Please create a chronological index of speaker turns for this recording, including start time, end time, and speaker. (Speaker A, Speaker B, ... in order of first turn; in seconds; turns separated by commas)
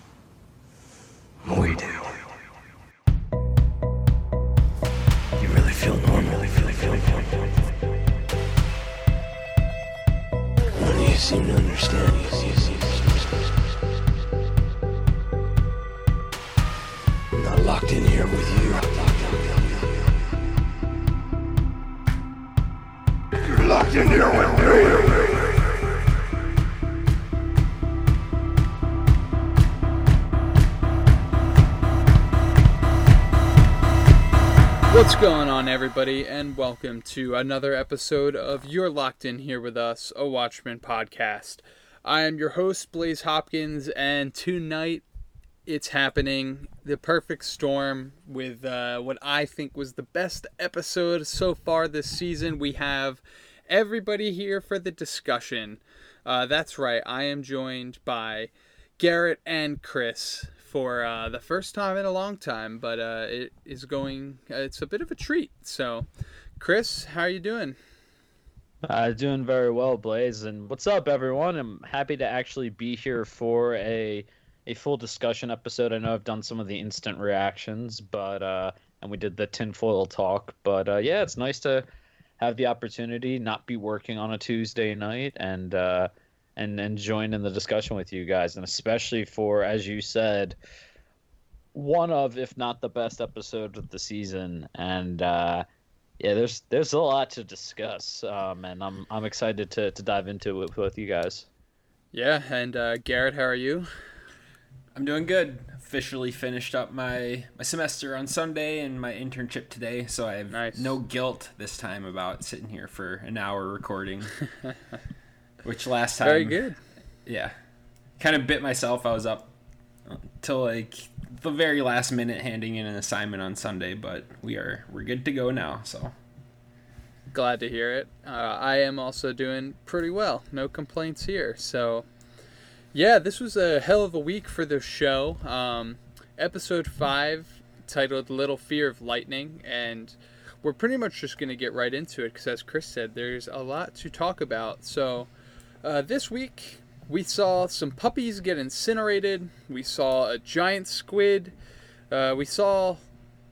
Speaker A: 1.4-2.4, Speaker A: 5.4-7.6, Speaker A: 10.8-13.2, Speaker A: 17.3-20.1, Speaker A: 23.4-25.5, Speaker B: 34.9-45.0, Speaker B: 45.7-66.1, Speaker B: 66.6-67.8, Speaker C: 68.8-81.9, Speaker C: 82.4-90.6, Speaker C: 91.8-95.7, Speaker C: 96.2-101.5, Speaker B: 102.1-103.9, Speaker D: 105.0-114.4, Speaker B: 110.5-111.0, Speaker D: 115.6-116.6, Speaker B: 116.2-116.8, Speaker D: 117.3-117.5, Speaker D: 118.2-119.5, Speaker D: 120.1-126.1, Speaker B: 127.3-132.1, Speaker B: 132.9-145.3, Speaker B: 145.8-151.5, Speaker B: 152.1-153.0